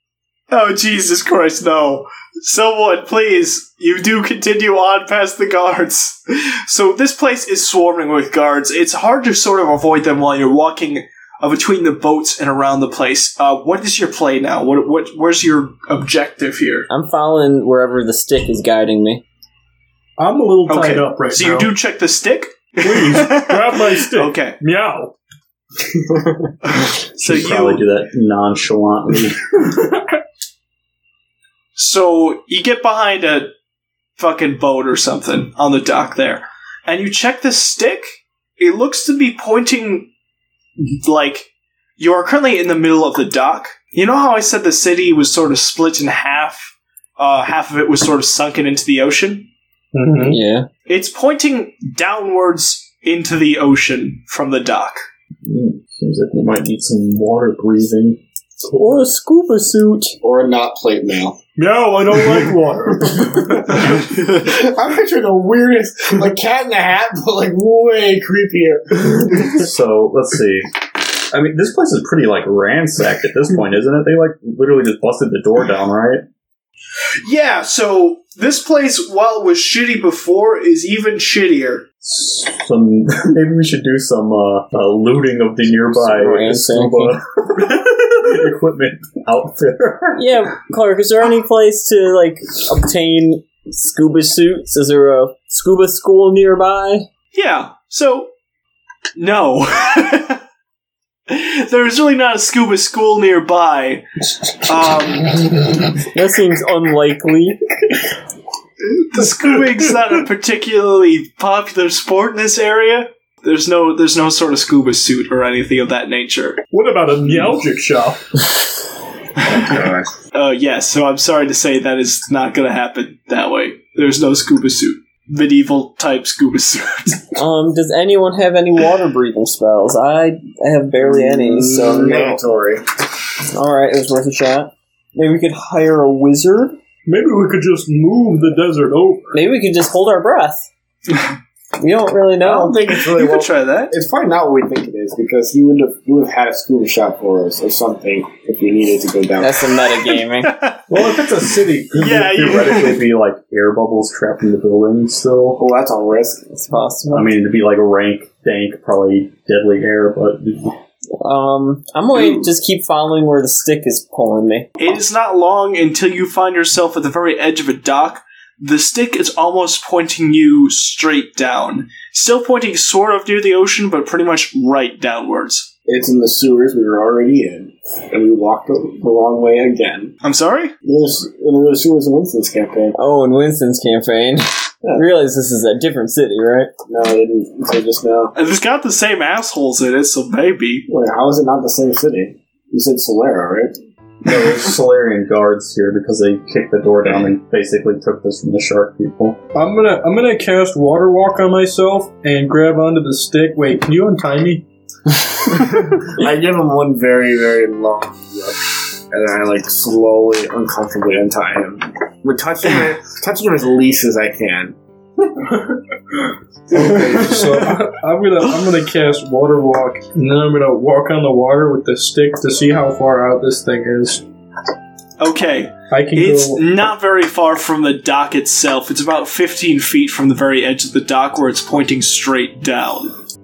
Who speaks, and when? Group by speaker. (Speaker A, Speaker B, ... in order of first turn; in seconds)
Speaker A: 0.5-16.9, 20.7-24.6, 26.6-27.8, 31.8-33.5, 34.2-40.1, 40.8-49.5, 50.9-55.0, 77.2-81.9, 97.3-98.3, 99.2-100.4, 101.3-104.1, 104.6-105.7, 108.9-116.6, 119.5-119.8, 120.3-127.3, 143.1-143.9, 150.4-150.8, 151.9-153.1, 164.8-175.7, 180.2-180.7, 188.4-190.9, 225.2-233.2
Speaker B: 16.9-19.2, 50.3-50.7, 58.7-60.2, 86.0-87.2, 90.2-97.1, 106.0-107.6, 127.3-132.4, 133.5-136.8, 139.3-140.7, 141.8-142.8, 149.4-150.6, 156.5-157.3, 161.2-164.7, 183.0-186.7
Speaker C: 20.2-21.7, 22.8-25.1, 49.9-50.4, 61.6-64.1, 116.7-118.2, 137.1-139.4, 199.5-204.6, 215.5-224.2, 225.9-226.6
Speaker D: 27.2-29.7, 55.4-58.2, 69.3-76.2, 82.0-90.2, 150.9-155.6, 157.1-160.8, 194.2-199.4
Speaker E: 60.2-61.4, 63.0-69.5, 119.5-120.1, 131.0-132.8, 142.4-149.7, 155.6-156.5, 175.9-180.1, 180.8-183.0, 186.9-188.3, 190.9-193.8, 206.1-214.8, 216.7-217.7